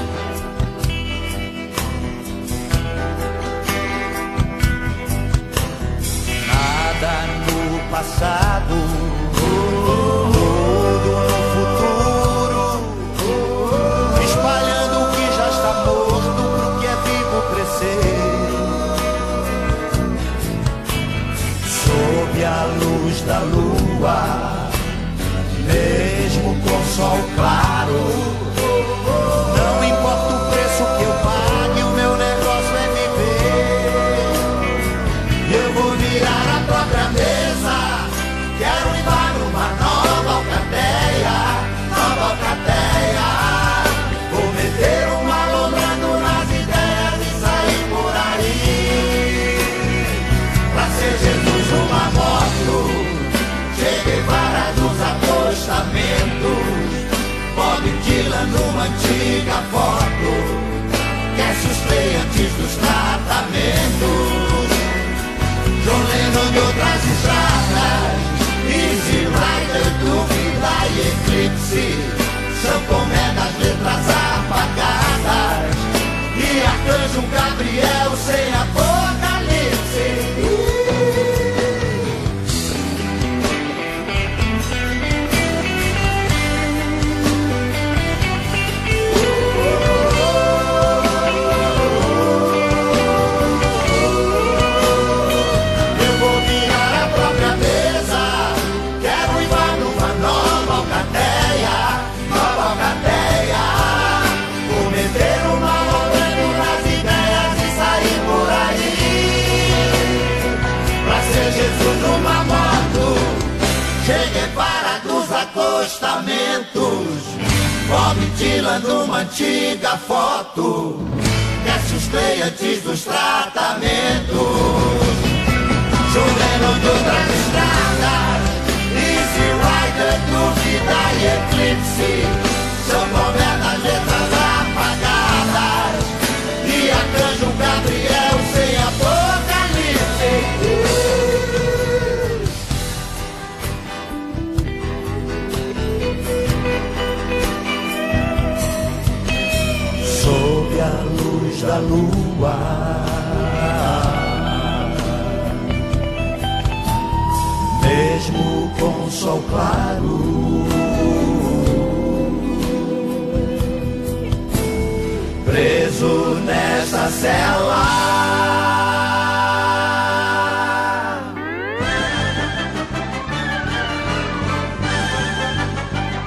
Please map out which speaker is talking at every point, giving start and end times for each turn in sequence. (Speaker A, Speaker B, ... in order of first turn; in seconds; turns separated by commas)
Speaker A: 6.4-18.9, Speaker A: 21.6-24.8, Speaker A: 25.6-28.6, Speaker A: 29.1-34.5, Speaker A: 35.4-49.6, Speaker A: 50.7-60.8, Speaker A: 61.3-64.9, Speaker A: 65.8-80.8, Speaker A: 95.9-110.1, Speaker A: 111.0-125.2, Speaker A: 126.0-141.8, Speaker A: 150.0-154.9, Speaker A: 157.7-162.1, Speaker A: 165.4-168.8